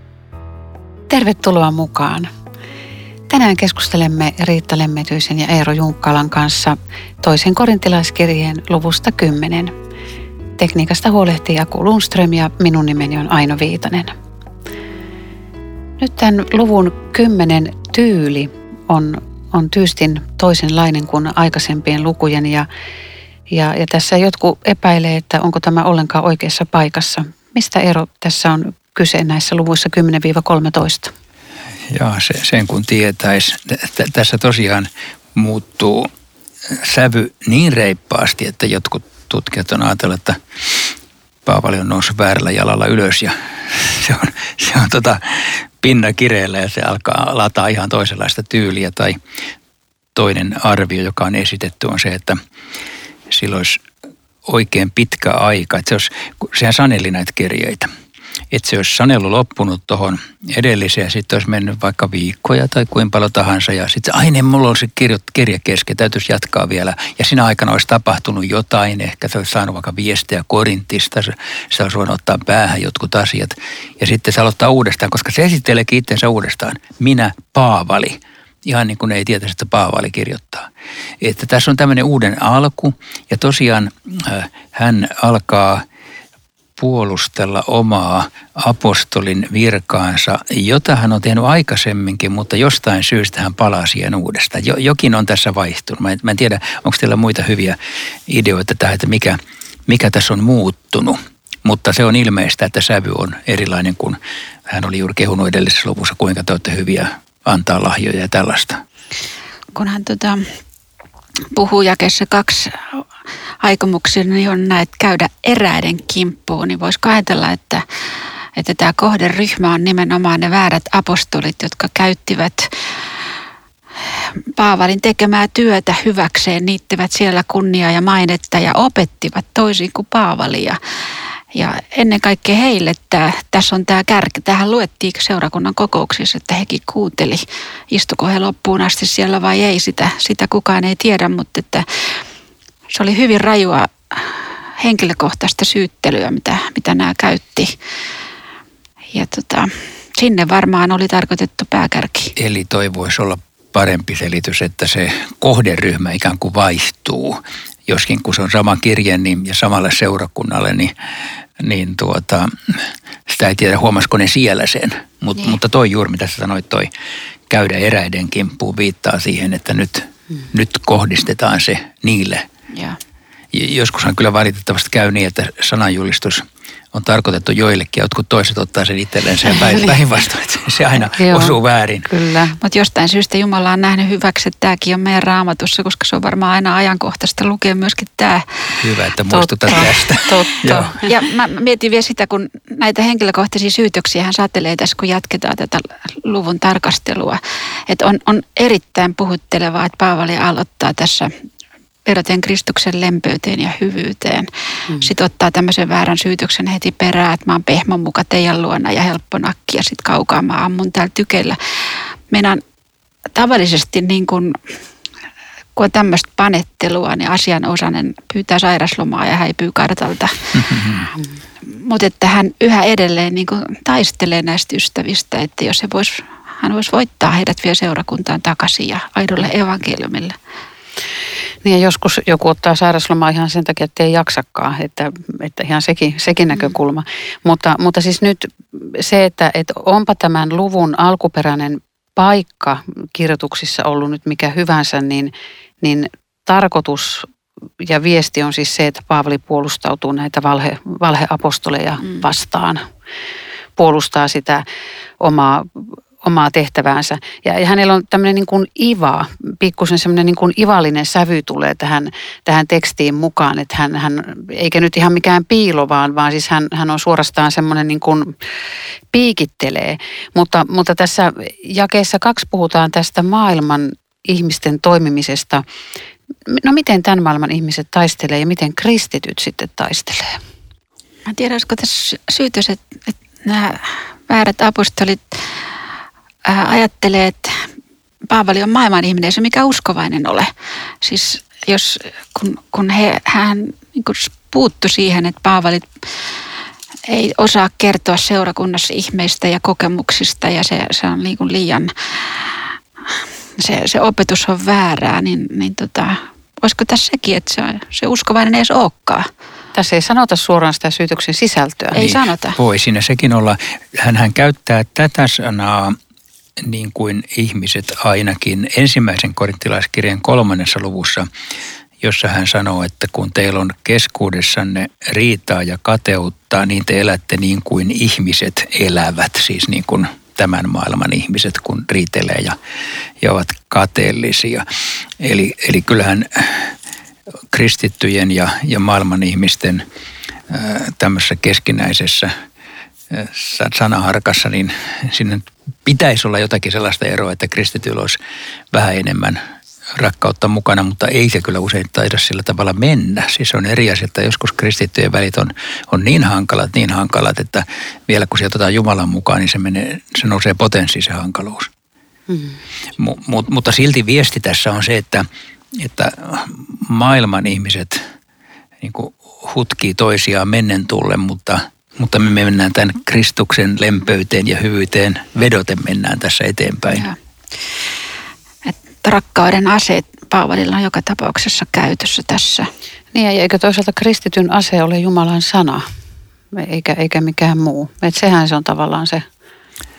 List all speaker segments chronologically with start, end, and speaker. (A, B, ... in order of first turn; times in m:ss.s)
0:01.1-0:02.3 A
0:03.3-0:09.7 A
0:10.6-0:14.1 A
0:16.0-0:22.7 A
0:23.5-0:31.1 A
0:31.9-0:36.1 B
0:36.7-0:40.9 B
0:41.4-0:49.2 B
0:50.1-0:52.4 B
0:53.3-0:53.8 B
0:54.4-0:57.9 B
0:58.5-1:20.7 B
1:21.2-1:25.8 B
1:26.8-1:37.8 B
1:38.3-1:48.8 B
1:49.7-1:50.5 C
1:51.5-1:53.0 C
1:53.6-1:57.8 C
1:58.6-2:02.7 C
2:04.1-2:10.8 C
2:11.5-2:22.1 C
2:22.9-2:27.7 C
2:29.1-2:32.3 C
2:32.4-2:40.9 B
2:41.6-2:46.9 B
2:47.5-2:52.4 B
2:52.7-2:53.0 C
2:53.5-3:02.1 B
3:01.1-3:02.6 A
3:02.6-3:08.5 C
3:08.8-3:10.9 B
3:09.3-3:11.1 A
3:11.0-3:21.3 C
3:22.0-3:32.6 C
3:33.3-3:34.7 C
3:35.8-3:40.8 C
3:40.5-3:41.1 B
3:41.6-3:50.4 C
3:51.6-4:07.3 A
4:07.8-4:12.8 A
4:13.8-4:14.6 A
4:15.2-4:28.3 A
4:29.1-4:35.6 A
4:36.5-4:40.4 A
4:41.3-4:45.6 C
4:46.4-4:47.6 C
4:48.3-4:50.5 C
4:51.0-4:56.4 C
4:57.1-5:09.3 C
5:09.7-5:11.9 A
5:11.9-5:12.6 C
5:11.9-5:16.0 B
5:16.6-5:21.3 B
5:22.0-5:32.6 B
5:33.2-5:34.6 B
5:35.2-5:36.7 B
5:37.5-5:39.8 B
5:40.5-5:42.3 B
5:43.1-5:48.2 B
5:48.7-5:49.4 B
5:50.0-6:01.7 B
6:02.3-6:02.6 A
6:03.0-6:08.0 B
6:08.8-6:17.1 B
6:16.9-6:17.2 C
6:18.6-6:22.7 C
6:23.1-6:25.8 A
6:26.5-6:29.2 A